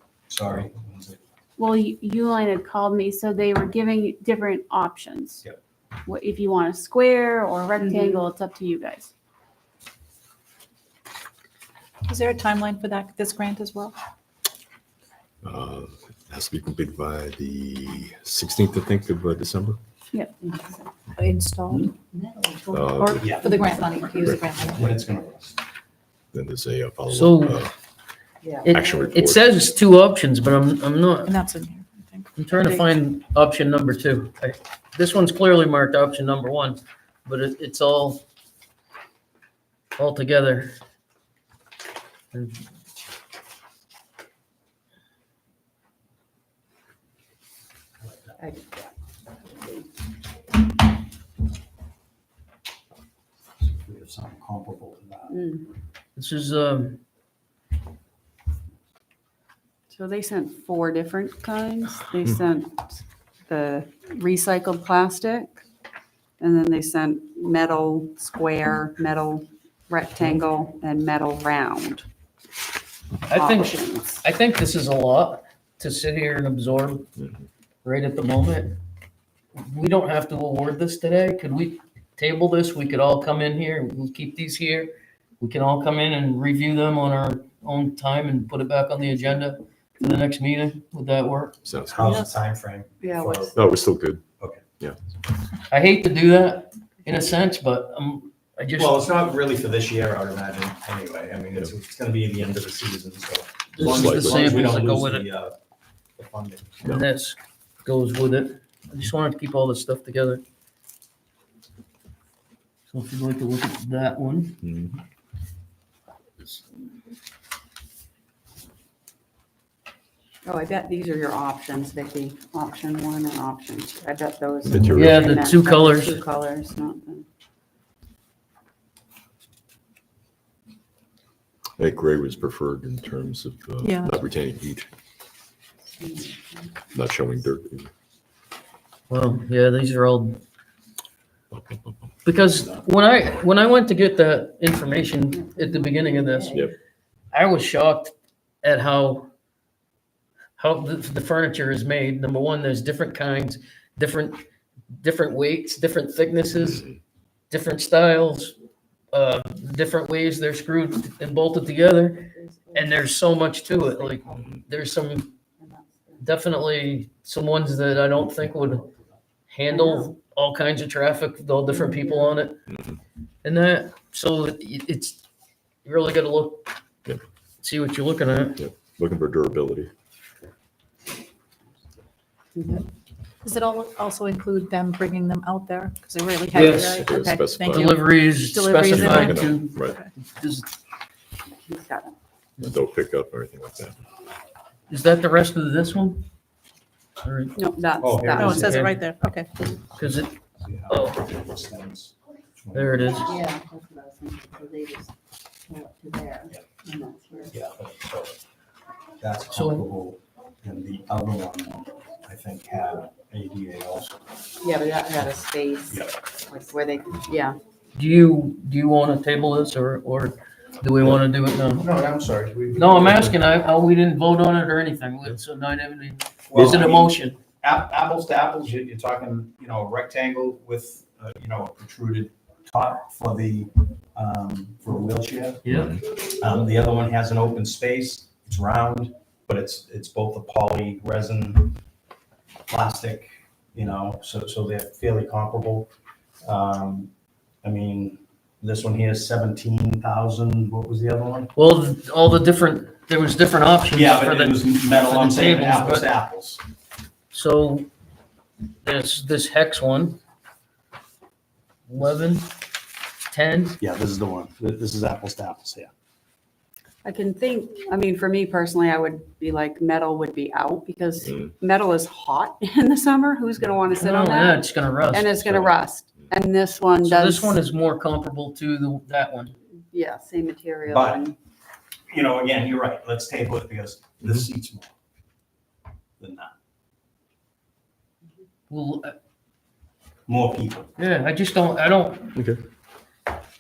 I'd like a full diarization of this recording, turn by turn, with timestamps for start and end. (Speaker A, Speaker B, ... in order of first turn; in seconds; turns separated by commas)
Speaker A: 0.3-1.2, Speaker B: 1.6-5.4, Speaker B: 6.1-9.1, Speaker C: 7.8-8.2, Speaker D: 12.1-14.0, Speaker E: 15.4-19.8, Speaker C: 20.4-20.9, Speaker D: 21.2-21.9, Speaker C: 22.1-22.8, Speaker E: 22.7-23.4, Speaker D: 23.0-25.0, Speaker A: 23.2-23.5, Speaker E: 24.2-24.5, Speaker A: 24.5-25.6, Speaker E: 26.3-27.7, Speaker F: 27.1-27.6, Speaker C: 28.4-28.7, Speaker F: 28.6-31.4, Speaker E: 28.7-29.5, Speaker D: 31.3-32.8, Speaker F: 32.4-38.2, Speaker F: 40.0-40.8, Speaker F: 42.3-42.6, Speaker C: 48.4-48.9, Speaker C: 49.6-49.9, Speaker A: 53.6-55.4, Speaker C: 55.3-55.7, Speaker F: 56.2-57.0, Speaker C: 59.9-65.6, Speaker C: 66.4-72.1, Speaker F: 73.3-77.1, Speaker C: 73.3-74.2, Speaker E: 77.2-77.5, Speaker F: 77.8-78.8, Speaker F: 79.5-91.6, Speaker E: 91.6-92.3, Speaker A: 91.8-93.6, Speaker C: 93.0-93.5, Speaker E: 93.5-94.2, Speaker F: 95.7-99.0, Speaker A: 98.8-105.5, Speaker F: 103.8-105.3, Speaker E: 103.8-104.5, Speaker A: 106.2-106.8, Speaker F: 106.8-110.4, Speaker F: 112.9-114.6, Speaker E: 114.6-115.0, Speaker C: 120.4-127.3, Speaker E: 124.7-125.3, Speaker F: 125.0-126.2, Speaker E: 131.8-134.9, Speaker D: 133.8-134.1, Speaker C: 136.0-136.7, Speaker E: 136.9-137.9, Speaker F: 139.1-140.4, Speaker E: 141.5-142.1, Speaker F: 142.2-146.6, Speaker C: 145.4-146.7, Speaker F: 147.3-149.3, Speaker F: 150.6-154.4, Speaker F: 154.9-156.9, Speaker F: 157.5-158.6, Speaker F: 159.1-165.3, Speaker C: 162.3-164.6, Speaker C: 165.6-166.3, Speaker F: 166.2-168.8, Speaker F: 169.5-172.6, Speaker C: 169.7-170.1, Speaker C: 171.7-172.4, Speaker E: 172.7-173.0, Speaker F: 173.4-175.2, Speaker F: 175.8-176.7, Speaker F: 177.6-178.6, Speaker E: 178.6-179.9, Speaker C: 182.6-182.8, Speaker D: 183.4-190.1, Speaker F: 186.5-187.0, Speaker E: 186.8-188.0, Speaker F: 187.7-190.7, Speaker E: 188.9-190.0, Speaker C: 191.6-192.2, Speaker E: 192.6-194.1, Speaker F: 194.9-196.3, Speaker F: 197.2-197.6, Speaker C: 197.6-198.9, Speaker A: 198.0-198.8, Speaker F: 198.4-199.0, Speaker D: 198.4-199.5, Speaker F: 199.9-200.3, Speaker A: 200.0-203.2, Speaker F: 200.9-201.2, Speaker F: 202.7-203.3, Speaker C: 203.2-205.1, Speaker C: 205.7-207.6, Speaker A: 207.5-208.3, Speaker A: 209.2-214.2, Speaker F: 209.5-209.9, Speaker C: 214.6-217.6, Speaker A: 215.9-216.2, Speaker F: 217.9-221.9, Speaker A: 221.8-223.4, Speaker F: 222.8-227.4, Speaker A: 226.5-241.8, Speaker F: 235.6-235.9, Speaker A: 242.7-245.9, Speaker A: 246.4-247.1, Speaker A: 247.6-251.5, Speaker F: 251.6-256.1, Speaker A: 253.9-256.6, Speaker F: 257.3-257.9, Speaker F: 258.8-260.2, Speaker F: 261.9-262.5, Speaker F: 263.3-263.8, Speaker A: 263.8-265.9, Speaker C: 267.0-277.6, Speaker F: 273.9-275.5, Speaker F: 277.0-279.6, Speaker C: 279.9-281.4, Speaker A: 280.9-281.2, Speaker A: 282.1-284.9, Speaker A: 286.2-286.5, Speaker F: 288.7-289.1, Speaker A: 290.3-290.9, Speaker F: 291.0-292.3, Speaker E: 292.4-292.6